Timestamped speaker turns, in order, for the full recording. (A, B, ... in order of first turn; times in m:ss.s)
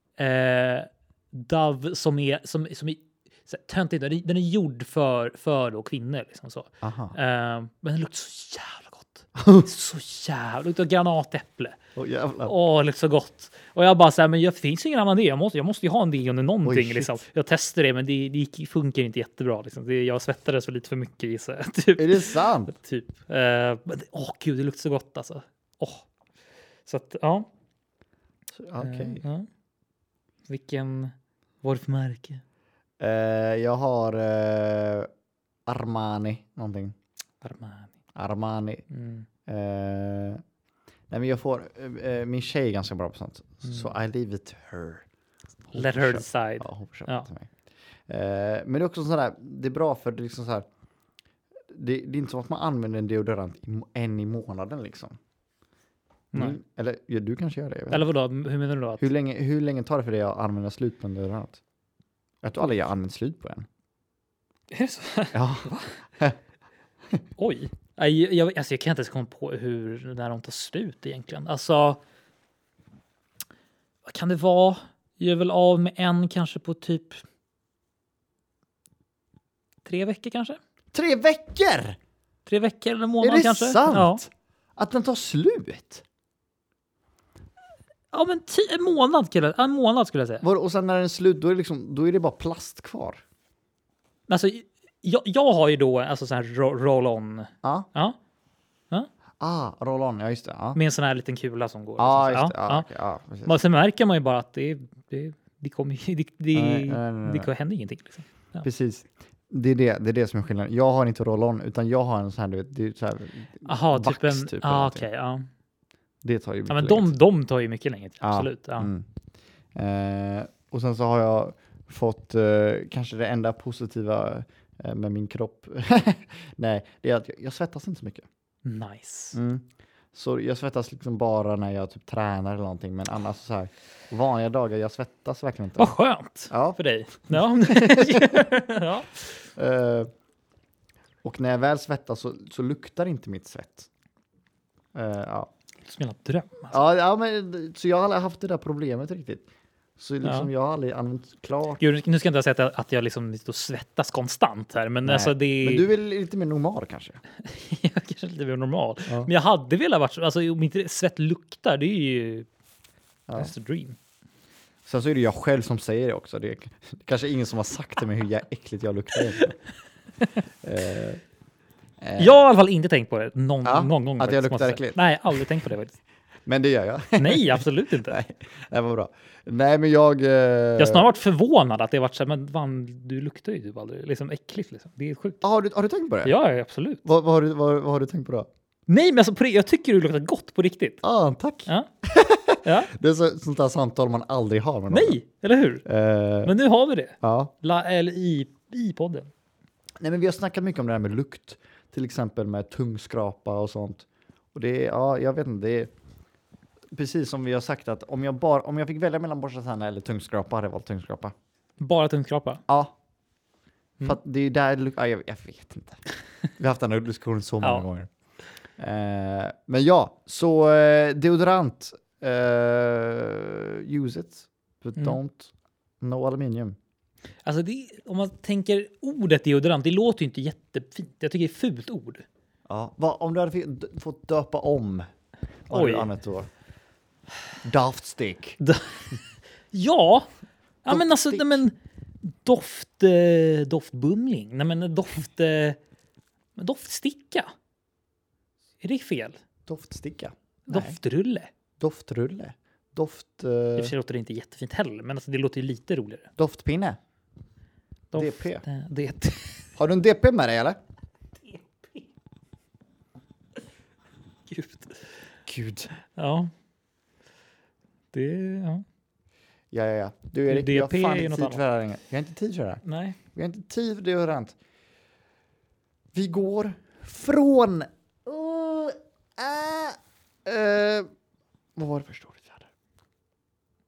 0:00.2-0:11.8 A
0:06.8-0:07.1 B
0:09.4-0:09.7 B
0:12.0-0:12.5 B
0:12.4-0:26.0 A
0:16.6-0:17.2 B
0:22.0-0:22.7 B
0:26.8-0:27.5 A
0:28.5-0:29.2 B
0:28.8-0:29.5 A
0:30.5-0:32.4 A
0:33.0-0:35.1 B
0:35.7-0:36.9 B
0:37.4-0:37.9 A
0:38.2-0:38.8 B
0:38.9-0:39.2 A
0:39.4-0:40.4 B
0:41.1-0:45.0 B
0:45.7-0:47.5 B
0:45.7-0:47.3 A
0:48.1-0:50.7 B
0:51.7-0:55.2 B
0:56.3-0:56.6 A
0:56.3-0:58.1 B
0:57.9-0:59.1 A
0:59.0-1:01.6 B
1:02.4-1:03.7 B
1:04.7-1:06.0 A
1:05.3-1:06.4 B
1:07.4-1:12.0 A
1:14.0-1:17.2 A
1:19.8-1:20.6 A
1:20.9-1:22.0 B
1:22.4-1:24.2 A
1:23.2-1:26.0 B
1:28.1-1:30.4 A
1:30.4-1:33.2 B
1:34.3-1:38.2 A
1:37.6-1:37.9 B
1:39.4-1:40.8 B
1:40.7-1:42.9 A
1:42.0-1:43.6 B
1:43.4-1:48.6 A
1:46.5-1:47.5 B
1:48.6-1:55.0 B
1:53.6-1:55.5 A
1:56.2-1:57.1 B
1:56.7-1:58.9 A
1:58.2-1:59.0 B
1:59.7-2:08.2 B
2:08.6-2:09.4 A
2:09.3-2:15.9 B
2:15.8-2:19.1 A
2:16.5-2:18.5 B
2:19.6-2:20.1 B
2:21.2-2:23.9 B
2:24.9-2:25.5 B
2:25.8-2:26.8 A
2:26.7-2:29.5 B
2:30.0-2:31.8 B
2:30.2-2:30.5 A
2:31.8-2:35.8 A
2:35.0-2:37.2 B
2:37.4-2:42.5 A
2:43.3-2:44.0 A
2:44.8-2:49.5 B
2:50.6-2:51.2 B
2:52.0-2:52.4 B
2:52.2-2:56.0 A
2:53.6-2:55.4 B
2:56.4-3:01.1 B
2:57.2-2:58.2 A
3:00.8-3:05.4 A
3:05.4-3:06.4 B
3:06.2-3:07.0 A
3:07.0-3:08.5 B
3:08.9-3:11.0 A
3:11.0-3:15.2 B
3:12.6-3:12.9 A
3:14.9-3:15.8 A
3:15.8-3:16.5 B
3:16.4-3:19.3 A
3:17.2-3:17.5 B
3:20.0-3:25.9 B
3:26.9-3:31.3 B
3:31.8-3:32.6 A
3:32.7-3:32.9 B
3:34.0-3:36.0 B
3:36.6-3:38.1 B
3:38.8-3:46.8 B
3:47.4-3:52.2 A
3:52.7-3:55.1 B
3:55.7-3:56.5 B
3:55.7-3:56.1 A
3:57.6-3:58.6 B
3:58.6-3:59.2 A
3:59.7-4:00.3 A
4:00.8-4:01.7 A
4:00.9-4:01.6 B
4:02.2-4:05.8 A
4:06.6-4:07.5 A
4:08.8-4:09.4 A
4:09.6-4:11.0 B
4:10.7-4:11.5 A
4:11.8-4:13.9 B
4:13.8-4:16.3 A
4:16.4-4:17.0 B
4:18.1-4:19.6 A
4:18.1-4:18.6 B
4:19.8-4:20.8 B
4:21.4-4:22.1 A
4:24.5-4:25.1 A
4:25.4-4:25.9 B
4:26.0-4:26.5 A
4:28.1-4:28.8 A
4:29.7-4:32.8 B
4:30.5-4:31.6 A
4:32.8-4:33.2 A
4:33.3-4:34.5 B
4:36.1-4:41.1 B
4:41.8-4:42.7 B